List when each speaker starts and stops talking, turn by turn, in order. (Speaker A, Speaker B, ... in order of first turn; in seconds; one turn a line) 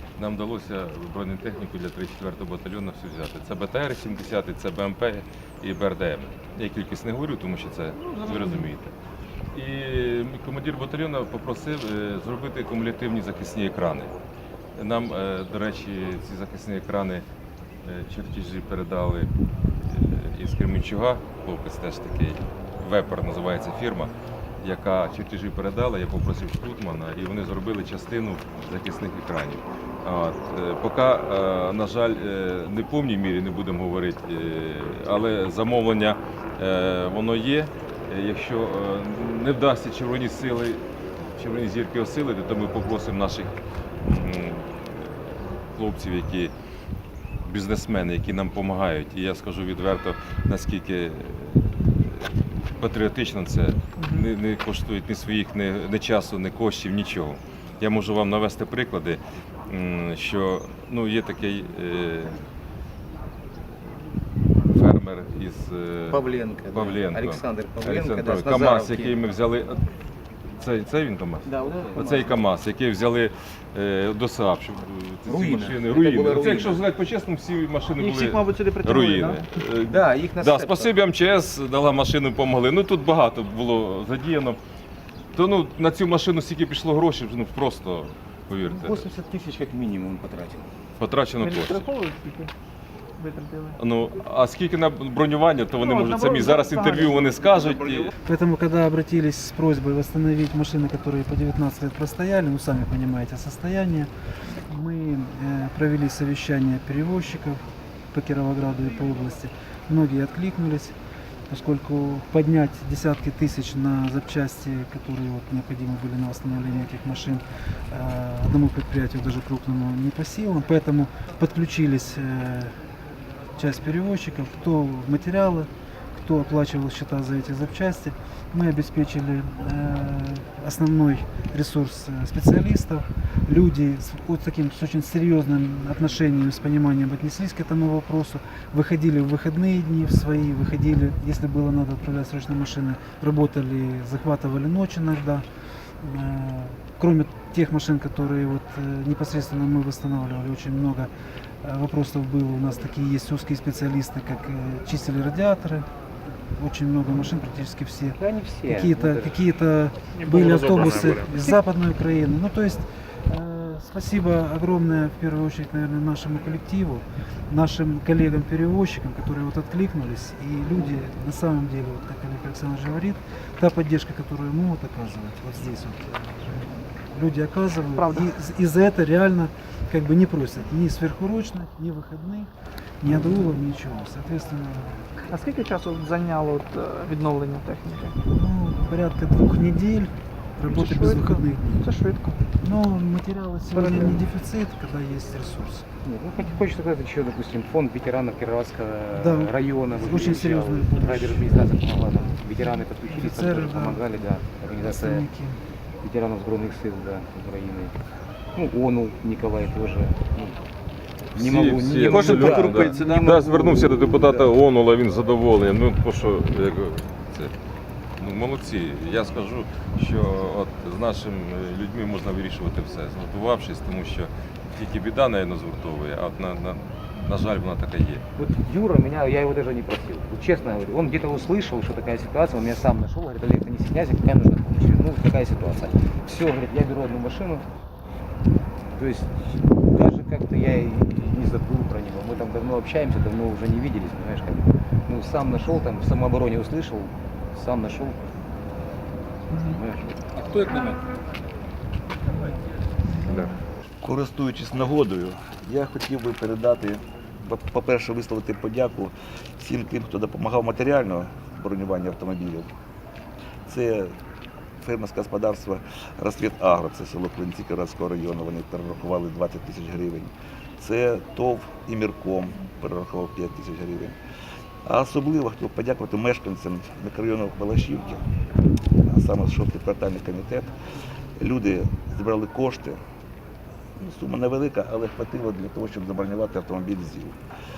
Speaker A: 0.2-8.9
Speaker B: 8.0-8.7
Speaker A: 9.5-14.1
Speaker A: 14.8-17.2
Speaker A: 17.8-46.5
Speaker A: 47.4-62.4
Speaker B: 54.0-54.3
Speaker A: 64.7-69.8
Speaker C: 66.1-69.2
Speaker A: 70.6-84.6
Speaker C: 71.4-72.4
Speaker C: 75.3-76.8
Speaker B: 78.0-79.4
Speaker C: 79.8-81.0
Speaker A: 85.3-89.0
Speaker C: 88.7-90.7
Speaker A: 91.0-91.8
Speaker B: 91.4-92.5
Speaker B: 93.2-93.8
Speaker A: 93.8-98.1
Speaker B: 95.8-97.4
Speaker D: 98.2-111.0
Speaker D: 111.5-122.8
Speaker D: 123.6-145.4
Speaker D: 146.0-151.1
Speaker D: 151.6-155.9
Speaker D: 156.4-182.5
Speaker C: 158.2-159.4
Speaker B: 177.9-178.3
Speaker D: 183.0-185.2
Speaker B: 185.2-188.2
Speaker D: 188.2-191.9
Speaker B: 190.6-192.4
Speaker D: 192.6-195.9
Speaker B: 193.7-194.2
Speaker C: 196.0-205.2
Speaker D: 199.2-204.0
Speaker D: 204.8-205.6
Speaker C: 206.0-208.0
Speaker C: 208.5-210.7
Speaker C: 211.3-214.5
Speaker A: 211.3-217.5
Speaker B: 212.1-213.3
Speaker D: 212.1-213.2
Speaker A: 218.2-228.2
Speaker C: 228.4-237.7
Speaker C: 238.9-248.2
Speaker C: 249.5-250.9
Speaker B: 253.1-253.4
Speaker A: 253.2-253.6
Speaker E: 254.0-262.7
Speaker E: 263.6-264.1
Speaker E: 264.8-274.1
Speaker E: 274.8-278.3
Speaker E: 279.0-280.7
Speaker E: 281.4-283.0
Speaker E: 284.0-287.4